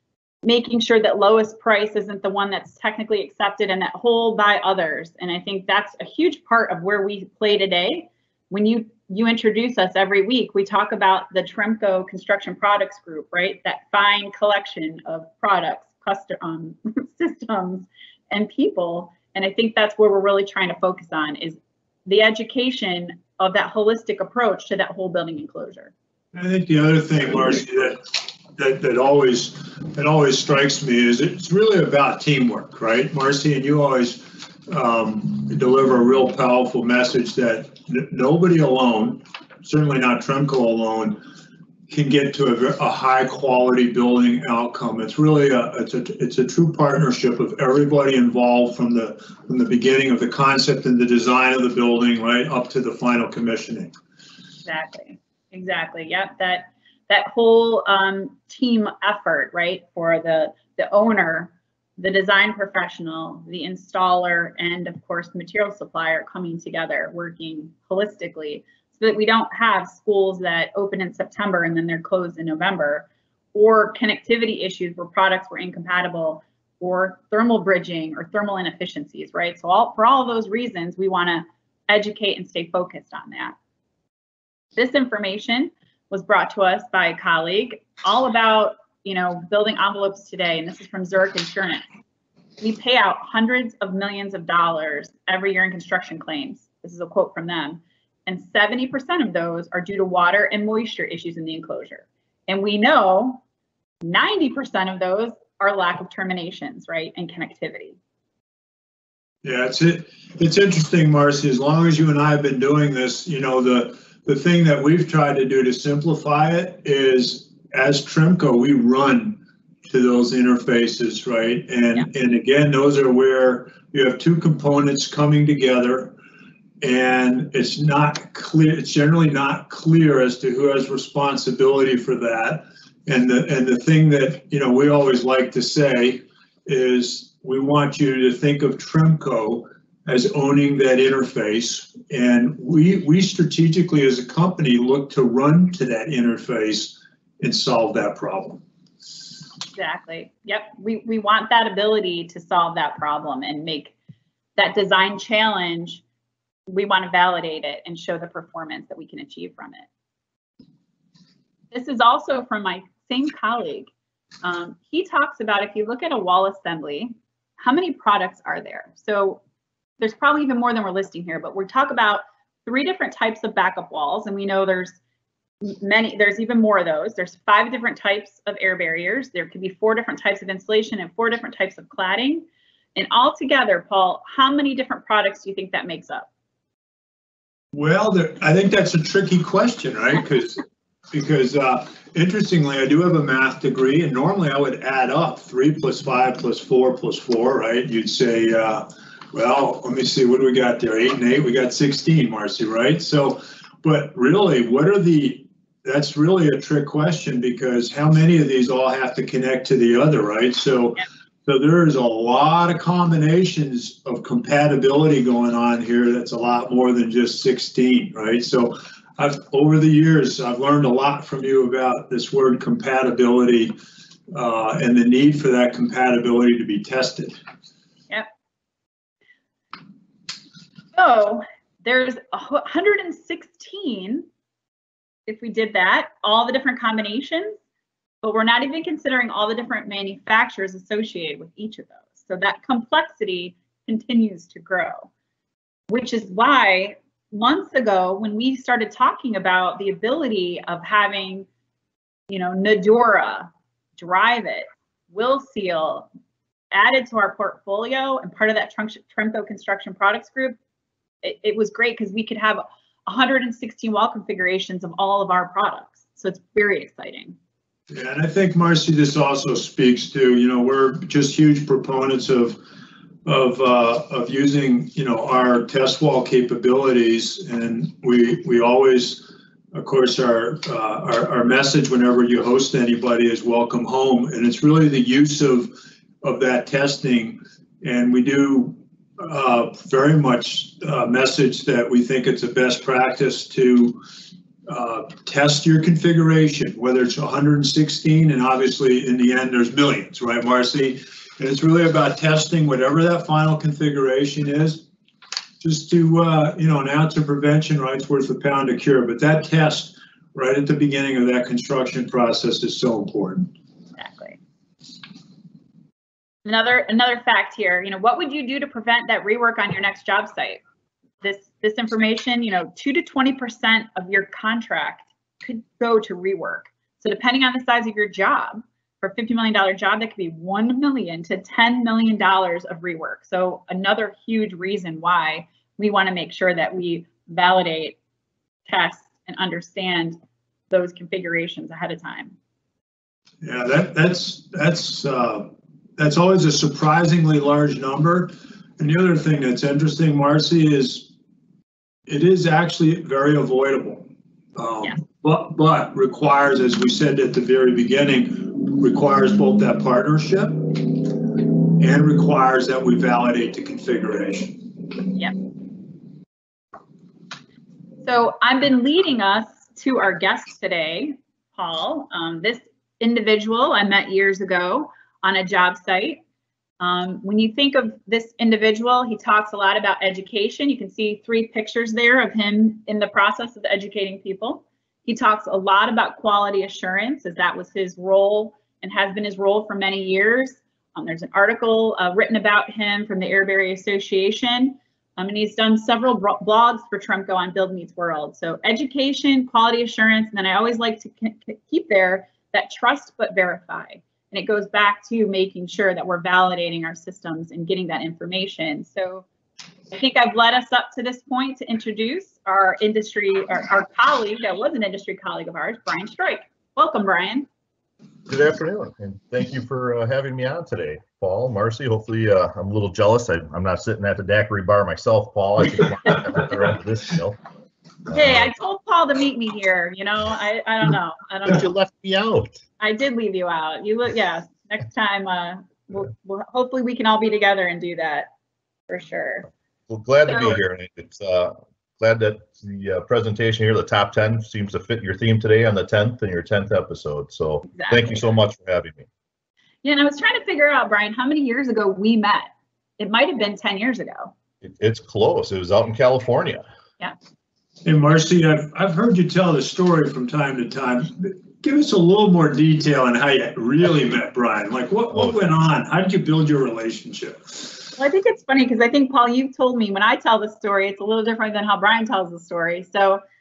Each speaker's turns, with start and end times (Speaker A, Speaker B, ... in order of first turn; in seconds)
Speaker A: 0.4-25.9, 54.7-83.5, 84.8-91.8, 92.6-103.4, 104.0-108.0, 149.7-153.9, 154.6-156.0, 156.7-159.9, 161.7-163.9, 164.4-169.4, 170.0-175.0, 175.6-186.3, 231.0-234.3, 235.3-237.6, 238.2-245.1, 245.9-251.5, 252.3-256.1, 256.7-260.6, 261.2-267.4, 314.0-314.4, 316.4-320.6, 321.2-338.0, 338.7-340.2, 340.7-342.3, 368.0-376.2, 376.8-409.2, 409.9-417.5, 428.1-431.7, 432.8-438.3, 438.9-439.5, 440.3-440.6, 447.7-448.2, 449.8-454.3, 468.0-473.2
Speaker B: 26.3-41.2, 41.9-53.9, 109.4-126.1, 126.8-148.6, 187.7-223.7, 224.3-227.4, 267.9-272.6, 273.2-294.0, 294.6-304.8, 305.6-313.5, 343.4-351.1, 352.1-364.6, 457.8-467.8
Speaker C: 418.3-427.4, 428.1-428.5, 431.4-432.6, 439.9-449.1, 454.6-456.6, 465.1-465.6